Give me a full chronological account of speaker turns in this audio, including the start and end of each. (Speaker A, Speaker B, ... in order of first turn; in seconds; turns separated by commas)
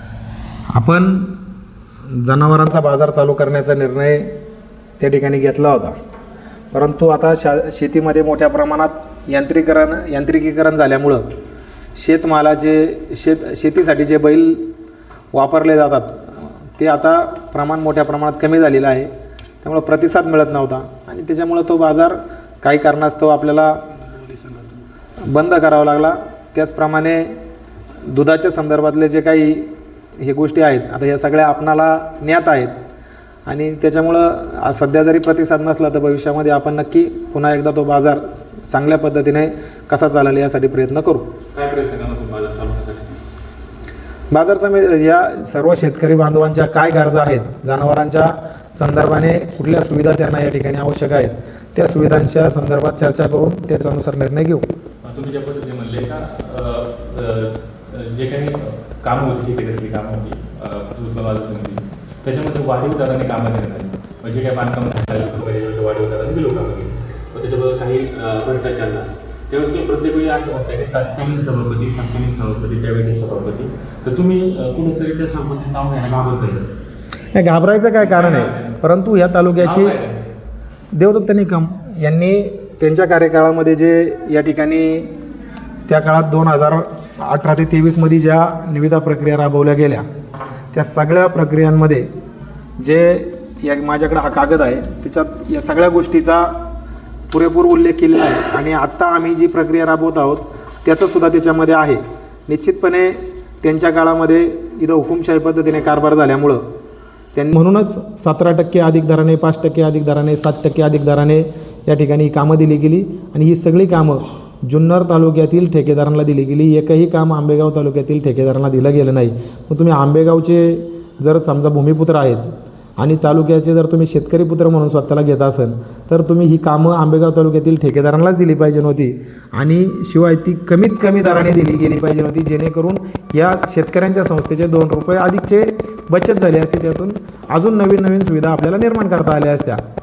Speaker A: 0.7-1.4, Speaker A: 2.1-4.3, Speaker A: 5.0-6.0, Speaker A: 6.7-11.3, Speaker A: 12.0-14.7, Speaker A: 15.3-19.1, Speaker A: 19.6-23.8, Speaker A: 25.2-27.3, Speaker A: 28.0-32.8, Speaker A: 33.5-41.3, Speaker B: 41.5-43.2, Speaker A: 44.3-54.6, Speaker B: 55.0-76.7, Speaker A: 77.3-80.0, Speaker B: 78.0-78.8, Speaker B: 79.6-80.3, Speaker A: 80.9-85.1, Speaker A: 85.9-90.0, Speaker A: 90.7-92.1, Speaker A: 92.8-96.5, Speaker A: 97.3-106.6, Speaker A: 107.3-139.8